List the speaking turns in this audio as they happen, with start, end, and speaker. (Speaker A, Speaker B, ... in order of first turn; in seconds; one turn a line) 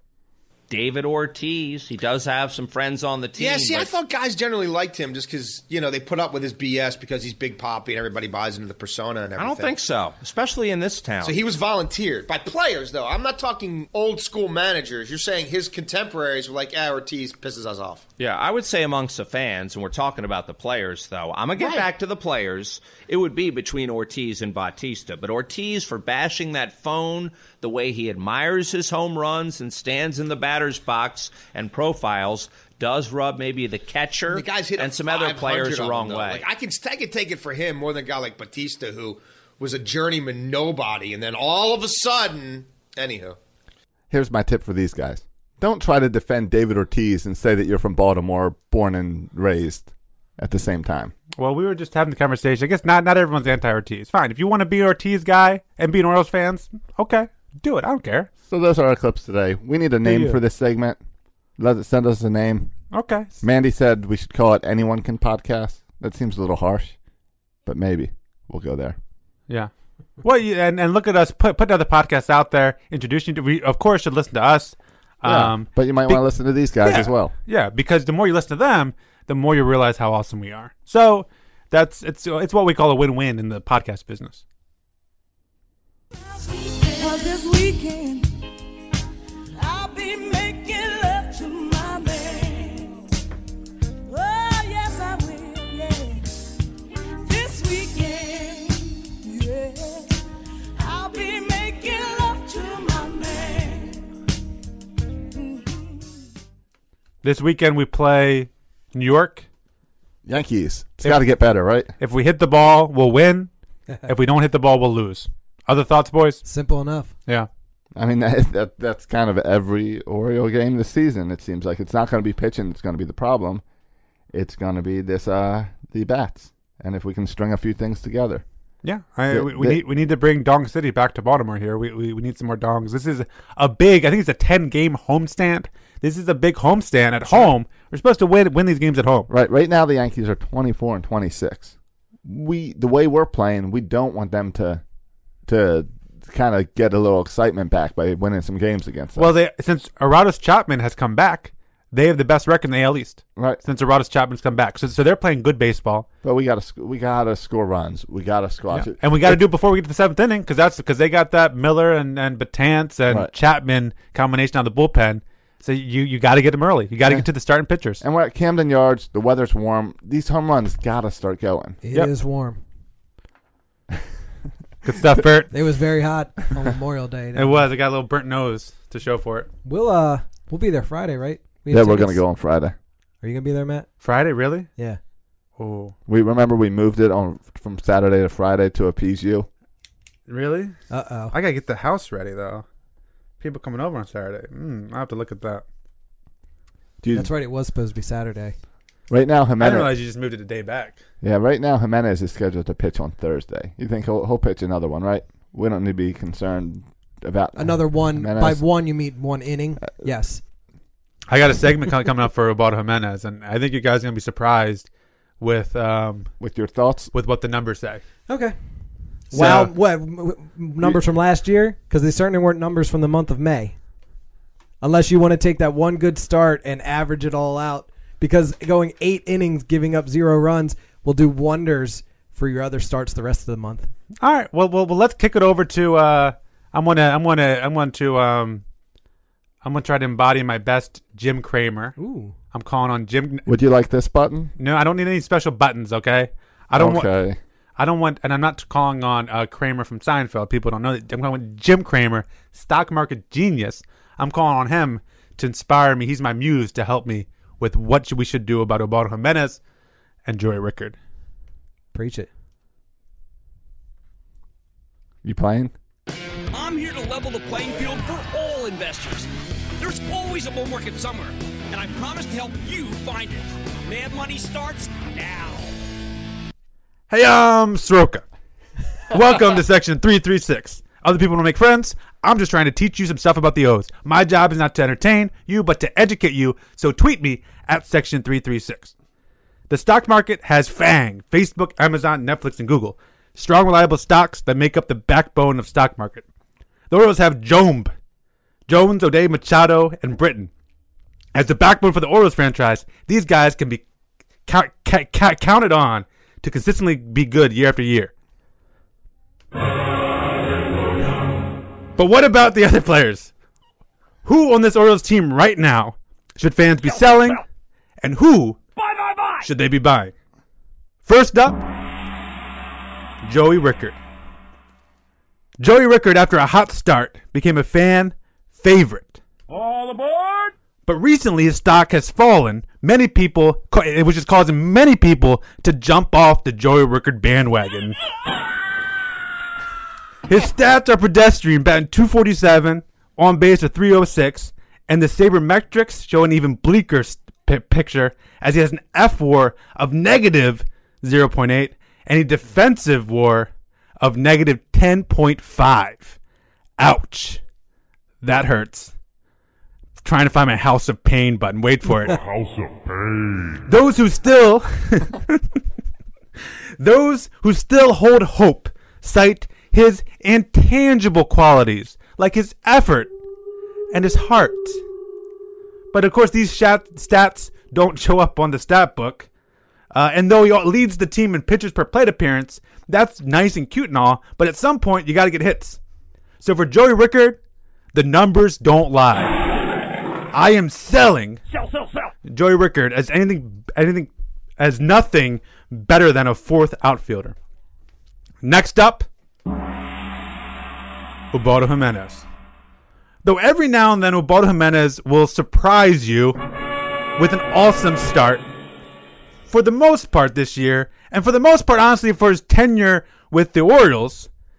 Speaker A: 0.7-3.9
Speaker B: 3.4-9.8
Speaker A: 9.4-11.4
Speaker B: 11.2-18.1
Speaker A: 18.2-36.5
Speaker B: 21.6-21.9
Speaker B: 34.3-43.4
Speaker C: 44.1-51.1
Speaker D: 51.4-58.3
Speaker C: 58.5-61.0
Speaker D: 60.0-60.4
Speaker C: 61.6-62.7
Speaker D: 62.9-63.4
Speaker C: 63.4-67.0
Speaker C: 67.7-69.0
Speaker D: 70.2-76.2
Speaker C: 75.2-77.3
Speaker D: 76.8-84.4
Speaker E: 86.2-88.3
Speaker E: 89.6-93.0
Speaker E: 94.1-96.3
Speaker E: 97.2-100.2
Speaker E: 100.8-104.1
Speaker E: 105.4-105.8
Speaker D: 107.2-109.5
Speaker C: 110.2-111.9
Speaker D: 112.0-113.5
Speaker D: 114.1-116.4
Speaker F: 116.5-117.1
Speaker C: 118.0-123.6
Speaker C: 124.3-128.4
Speaker D: 128.8-139.3
Speaker C: 129.3-129.8
Speaker C: 139.3-141.7
Speaker C: 142.2-144.8
Speaker C: 145.5-149.3
Speaker D: 149.2-156.1
Speaker C: 156.2-159.4
Speaker D: 158.7-168.0
Speaker C: 168.0-171.8
Speaker F: 171.8-172.6
Speaker D: 174.8-175.5
Speaker F: 175.5-177.6
Speaker D: 177.3-179.5
Speaker F: 179.7-182.2
Speaker C: 181.7-182.8
Speaker F: 183.2-183.9
Speaker D: 184.0-184.7
Speaker D: 185.6-185.9
Speaker C: 186.1-189.5
Speaker D: 190.3-190.8
Speaker F: 190.9-191.3
Speaker D: 191.3-192.7
Speaker D: 193.4-195.6
Speaker C: 197.0-197.3
Speaker F: 197.1-198.6
Speaker C: 199.1-199.9
Speaker D: 199.6-201.0
Speaker C: 201.2-208.6
Speaker F: 207.6-210.4
Speaker D: 211.3-214.9
Speaker D: 215.4-216.3
Speaker C: 216.4-217.1
Speaker D: 217.1-218.0
Speaker F: 218.3-218.6
Speaker F: 219.3-223.8
Speaker D: 219.3-219.7
Speaker F: 224.8-233.9
Speaker D: 234.2-238.6
Speaker D: 239.6-241.9
Speaker F: 242.0-242.3
Speaker D: 242.5-243.5
Speaker C: 243.5-244.5
Speaker D: 244.6-247.1
Speaker C: 246.7-247.4
Speaker D: 247.8-259.6
Speaker D: 260.3-261.0
Speaker F: 261.9-262.3
Speaker C: 265.2-265.7
Speaker G: 266.5-275.7
Speaker D: 277.1-278.2
Speaker D: 279.1-288.9
Speaker D: 289.7-296.2
Speaker D: 296.9-297.9
Speaker D: 298.7-300.5
Speaker D: 301.3-303.8
Speaker D: 304.5-308.1
Speaker D: 312.0-313.3
Speaker D: 314.2-317.4
Speaker D: 318.0-318.6
Speaker D: 319.4-320.1
Speaker D: 321.1-321.7
Speaker D: 323.2-324.0
Speaker D: 325.6-329.2
Speaker D: 330.9-338.0
Speaker D: 340.3-356.2
Speaker D: 356.8-357.4
Speaker D: 358.2-358.9
Speaker D: 360.0-362.2
Speaker D: 363.7-365.4
Speaker D: 366.8-373.1
Speaker D: 373.9-374.8
Speaker D: 375.9-379.3
Speaker D: 379.9-385.8
Speaker D: 386.4-387.4
Speaker D: 387.9-389.4
Speaker D: 390.3-391.4
Speaker D: 392.3-397.4
Speaker D: 398.4-399.1
Speaker D: 401.3-402.3
Speaker D: 403.2-406.4
Speaker D: 407.2-408.5
Speaker D: 409.5-414.3